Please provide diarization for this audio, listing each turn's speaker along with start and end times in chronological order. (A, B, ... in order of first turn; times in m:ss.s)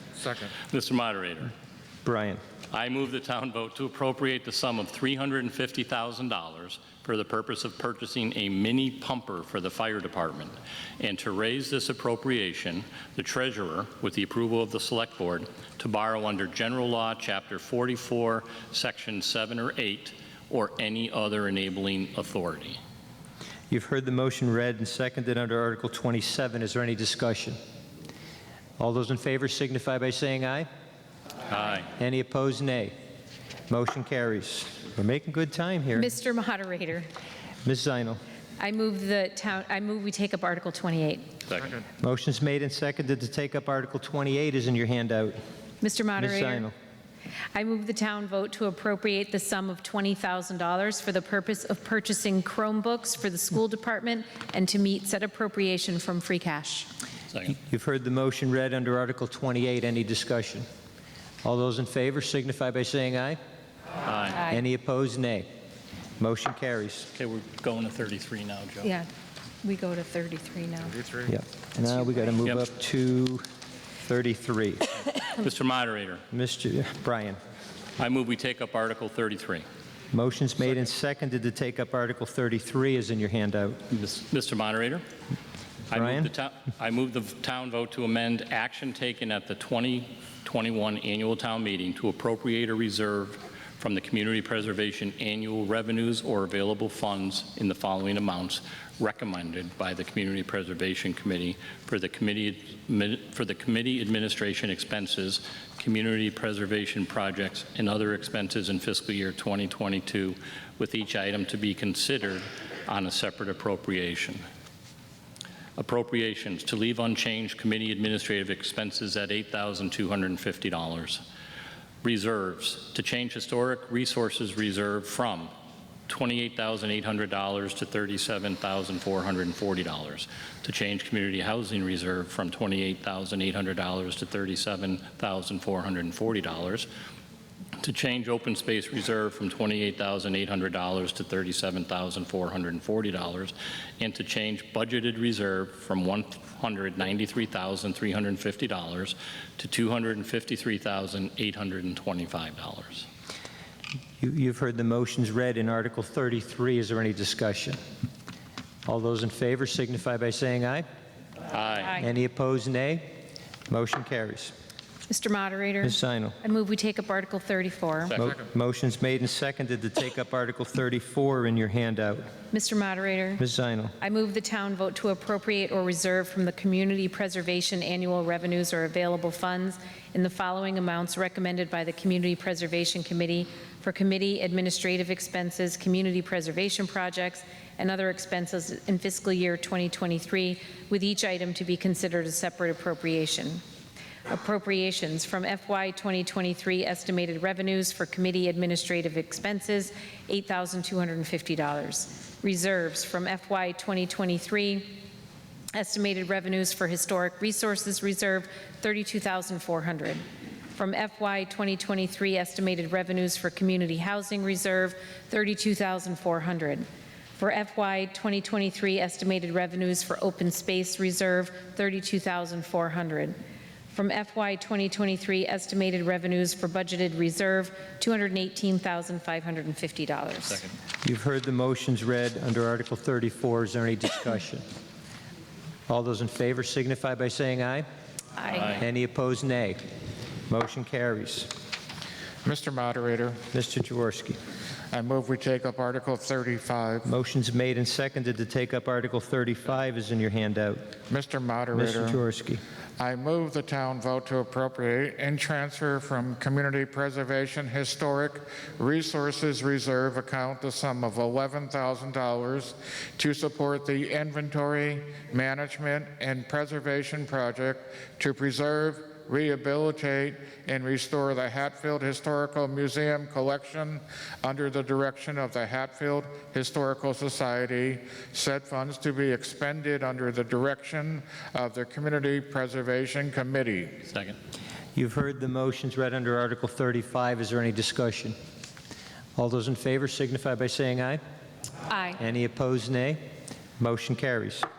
0:00.2-0:00.5 A
0:00.7-0:01.5 B
0:02.0-0:02.4 C
0:02.7-0:22.8 B
0:23.7-0:27.6 C
0:28.8-0:30.7 C
0:31.5-0:31.9 B
0:32.0-0:32.9 C
0:33.7-0:36.1 C
0:36.0-0:37.1 D
0:37.6-0:38.2 C
0:38.6-0:41.3 D
0:41.5-0:41.8 B
0:42.0-0:45.4 C
0:45.8-0:46.7 D
0:46.2-0:46.7 C
0:47.5-0:56.9 D
0:57.3-0:57.6 B
0:57.6-1:00.6 C
1:01.4-1:03.4 C
1:04.0-1:04.5 B
1:04.5-1:05.5 C
1:06.2-1:07.1 C
1:07.2-1:08.9 B
1:08.8-1:09.1 D
1:09.6-1:11.0 D
1:10.9-1:11.3 A
1:11.3-1:13.4 C
1:14.0-1:14.8 C
1:15.4-1:16.2 B
1:16.3-1:17.4 C
1:18.0-1:19.6 B
1:20.1-1:23.8 C
1:23.9-1:25.0 B
1:25.9-1:54.4 B
1:25.9-1:26.3 C
1:55.8-2:01.2 B
2:02.0-2:05.5 B
2:06.1-2:16.9 B
2:17.8-2:33.1 B
2:34.2-2:37.8 C
2:38.9-2:40.8 C
2:41.5-2:42.0 B
2:42.0-2:43.2 C
2:43.7-2:44.5 C
2:45.1-2:48.2 D
2:45.8-2:46.4 C
2:48.2-2:52.3 C
2:52.5-2:53.4 D
2:53.4-2:54.0 C
2:54.0-3:13.6 D
3:14.3-3:25.0 D
3:25.7-3:43.4 D
3:43.9-3:50.6 D
3:51.0-3:54.6 C
3:55.9-3:57.8 C
3:58.4-3:58.7 D
3:58.5-3:58.8 B
3:58.7-3:59.8 C
4:00.5-4:01.5 C
4:02.4-4:03.4 A
4:03.5-4:04.4 C
4:04.9-4:07.1 A
4:07.0-4:10.9 C
4:11.1-4:12.2 A
4:11.7-4:12.6 C
4:13.0-4:44.0 A
4:44.1-4:44.4 B
4:45.0-4:48.4 C
4:49.4-4:51.2 C
4:51.9-4:52.2 D
4:52.2-4:53.2 C
4:53.8-4:54.7 C